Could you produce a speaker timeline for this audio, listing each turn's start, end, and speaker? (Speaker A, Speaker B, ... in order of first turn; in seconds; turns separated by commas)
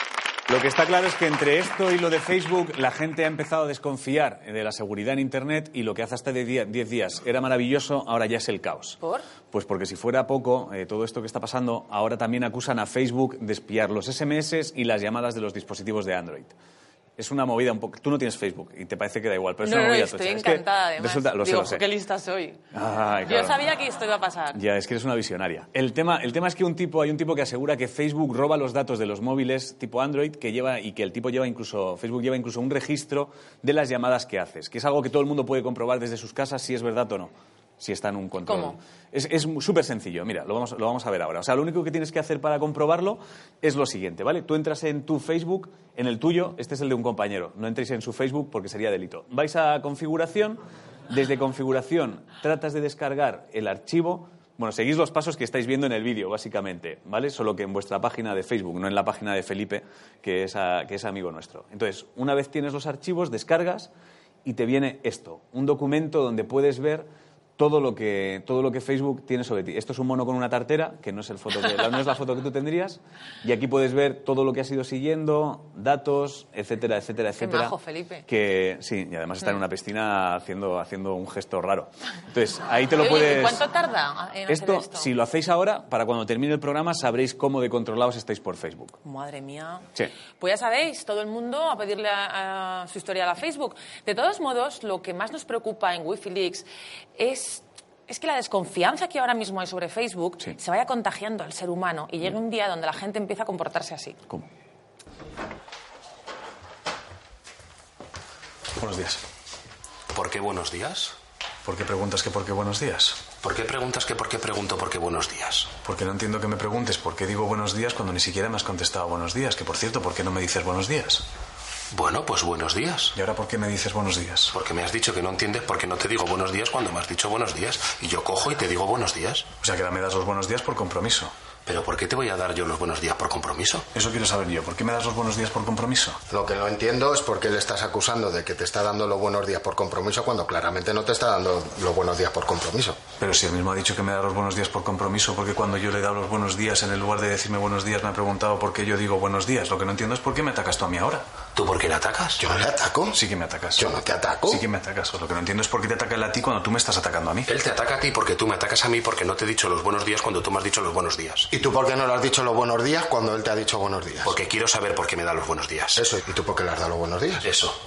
Speaker A: 0.5-9.0, Speaker B: 9.0-9.3, Speaker A: 9.5-16.5, Speaker A: 17.2-21.8, Speaker B: 19.6-22.6, Speaker A: 22.7-23.6, Speaker B: 23.3-24.6, Speaker A: 24.5-63.9, Speaker B: 38.4-38.8, Speaker A: 64.4-83.7, Speaker B: 77.4-78.2, Speaker B: 83.0-85.1, Speaker A: 84.5-89.0, Speaker B: 89.0-104.2, Speaker C: 108.8-109.2, Speaker D: 110.1-111.2, Speaker C: 111.6-113.2, Speaker D: 113.4-115.7, Speaker C: 115.8-121.2, Speaker D: 121.9-123.1, Speaker C: 123.1-124.5, Speaker D: 124.5-129.5, Speaker C: 129.6-131.3, Speaker D: 131.7-133.9, Speaker C: 133.9-136.2, Speaker E: 136.3-143.0, Speaker C: 143.2-151.2, Speaker D: 151.5-152.4, Speaker E: 152.4-153.2, Speaker C: 153.1-153.9, Speaker E: 153.8-154.6, Speaker C: 154.4-157.5, Speaker D: 157.5-161.5, Speaker E: 161.5-164.4, Speaker D: 164.2-166.0, Speaker E: 165.9-167.4, Speaker D: 167.4-167.8